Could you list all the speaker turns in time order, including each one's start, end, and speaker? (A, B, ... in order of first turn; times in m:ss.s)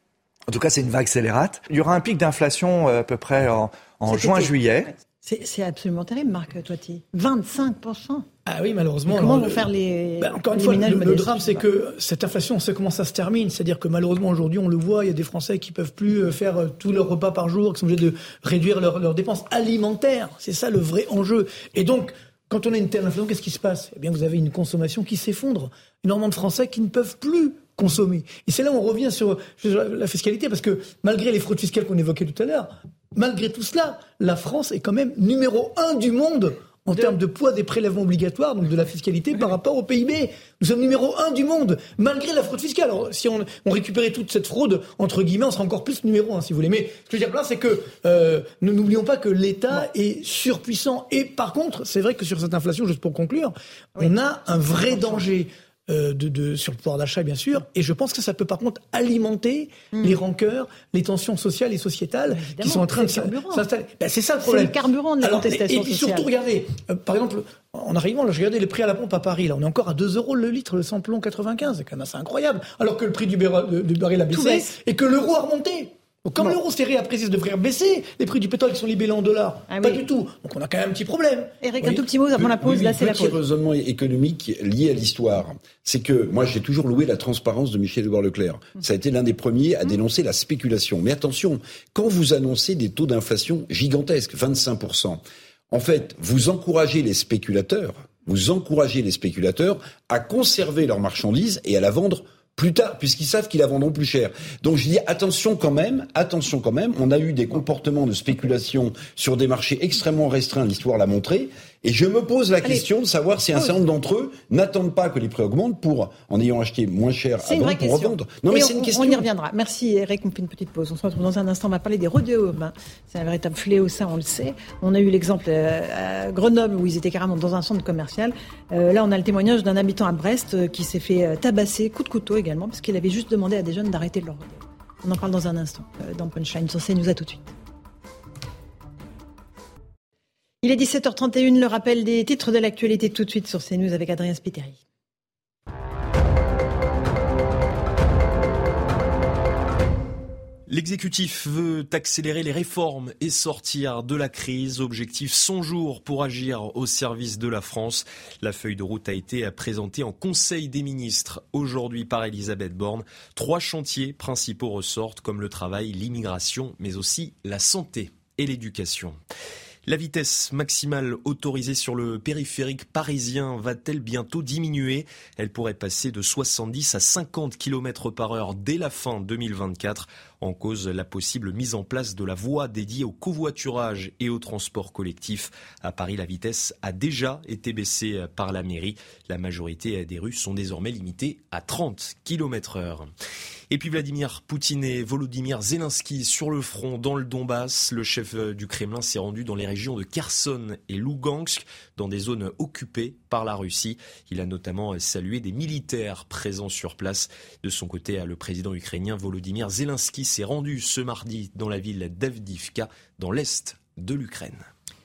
0:00.5-0:04.9 A
0:04.1-0:08.2 B
0:08.4-0:09.7 C
0:09.1-0:11.6 B
0:10.2-1:21.5 C
0:54.0-0:55.3 B
0:59.9-1:00.2 B
1:02.3-1:03.7 B
1:04.4-1:06.3 B
1:14.3-1:14.7 B
1:19.7-1:20.0 B
1:21.6-1:23.4 B
1:21.9-1:59.2 D
1:57.4-2:17.5 B
2:20.6-2:24.8 B
2:30.7-2:49.2 E
2:49.9-3:13.1 E
3:13.7-3:34.6 E